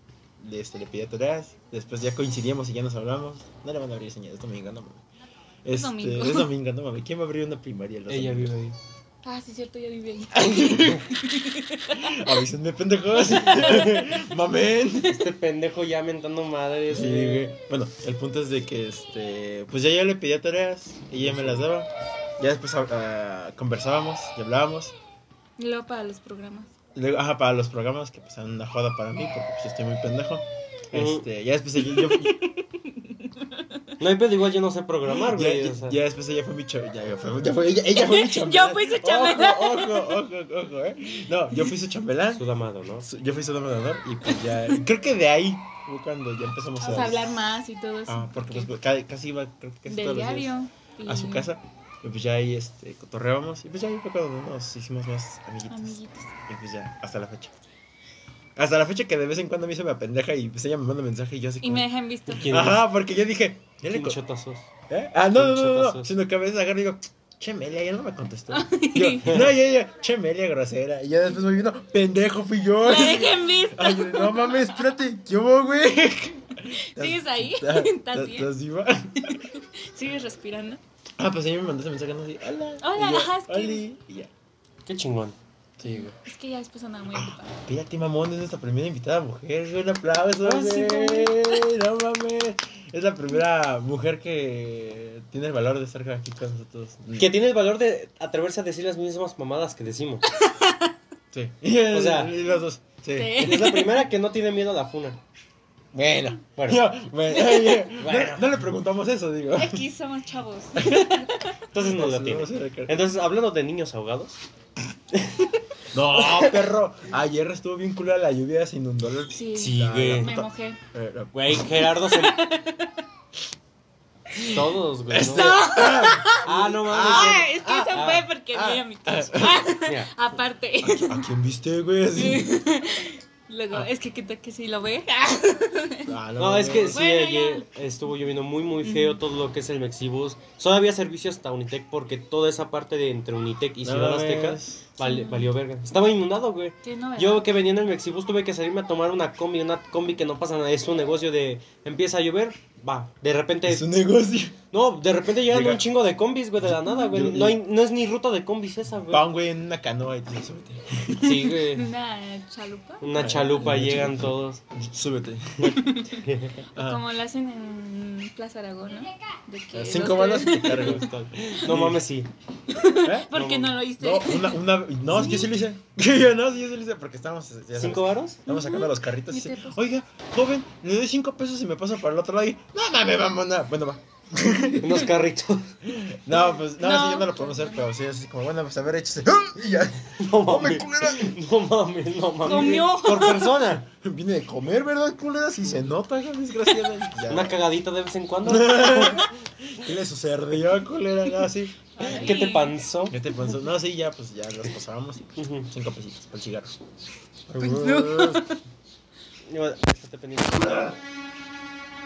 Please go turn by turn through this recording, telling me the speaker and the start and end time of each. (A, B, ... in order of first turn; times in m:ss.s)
0:00.4-0:05.0 A
0:05.6-0:08.5 A
0:05.7-0:06.5 B
0:08.1-0:08.8 C
0:09.2-0:12.4 B
0:10.3-0:11.2 A
0:11.9-0:15.3 A
0:13.5-0:14.1 B
0:15.0-0:17.5 C
0:16.9-0:24.9 A
0:21.2-0:21.7 C
0:25.6-0:26.7 B
0:26.9-0:32.5 A
0:30.9-0:31.2 C
0:31.9-0:33.8 B
0:34.0-0:36.0 C
0:35.1-0:42.4 A
0:37.9-0:40.2 B
0:42.3-0:43.1 C
0:43.0-0:50.5 A
0:44.3-0:44.8 B
0:46.8-0:48.7 B
0:49.8-0:51.5 B
0:51.0-0:57.5 A
0:55.7-0:56.3 B
0:58.6-1:01.9 A
1:01.6-1:02.5 B
1:02.3-1:02.8 C
1:02.4-1:04.2 A
1:03.9-1:04.7 C
1:04.9-1:19.4 A
1:05.3-1:06.1 C
1:08.5-1:09.4 B
1:09.2-1:09.5 C
1:12.8-1:15.0 B
1:16.6-1:18.5 B
1:19.2-1:20.8 B
1:21.2-1:24.3 A
1:22.8-1:23.8 B
1:24.8-1:25.4 C
1:25.8-1:26.1 A
1:25.8-1:27.6 B
1:27.1-1:37.3 A
1:30.4-1:31.3 C
1:37.2-1:40.2 C
1:40.4-1:40.9 B
1:41.3-1:43.8 A
1:41.9-1:42.4 C
1:43.1-1:44.0 B
1:43.4-1:45.2 C
1:45.9-1:49.8 A
1:46.6-1:48.6 C
1:47.4-1:47.8 B
1:49.5-1:51.6 B
1:50.8-1:53.0 A
1:51.7-1:54.4 C
1:55.1-1:55.5 C
1:55.9-2:01.7 A
1:56.1-1:56.5 C
1:59.3-2:00.8 B
1:59.5-2:00.3 C
2:01.3-2:02.4 C
2:02.0-2:03.0 B
2:04.3-2:09.7 A
2:04.4-2:05.6 C
2:05.2-2:11.3 B
2:06.4-2:08.3 C
2:09.8-2:10.1 C
2:10.8-2:12.6 A
2:12.1-2:16.1 B
2:16.0-2:17.0 A
2:16.4-2:33.9 C
2:16.7-2:17.7 B
2:18.8-2:19.2 B
2:23.8-2:24.8 A
2:25.0-2:25.5 B
2:26.8-2:27.5 B
2:33.6-2:34.6 A
2:34.7-2:39.2 C
2:35.4-2:35.9 A
2:36.6-2:37.6 A
2:39.1-2:41.5 A
2:41.2-2:41.9 C
2:41.4-2:43.1 B
2:43.0-2:44.6 C
2:43.1-2:45.8 A
2:45.6-2:46.6 C
2:45.7-2:46.2 B
2:46.7-2:51.1 B
2:46.7-2:47.0 A
2:49.7-2:52.0 A
2:50.6-2:52.3 C
2:52.7-2:55.5 B
2:53.0-3:05.1 A
2:53.3-2:53.8 C
2:57.7-2:58.4 C
2:58.5-2:59.8 B
3:04.8-3:05.7 C
3:05.8-3:11.4 A
3:06.3-3:07.8 B
3:10.2-3:13.8 C
3:12.4-3:13.6 B
3:13.1-3:17.6 A
3:17.3-3:19.3 C
3:18.4-3:22.5 A
3:22.0-3:22.8 B
3:22.0-3:23.2 C
3:23.1-3:26.8 A
3:25.4-3:25.7 C
3:27.5-3:28.5 A
3:27.6-3:28.6 B
3:29.5-3:31.0 C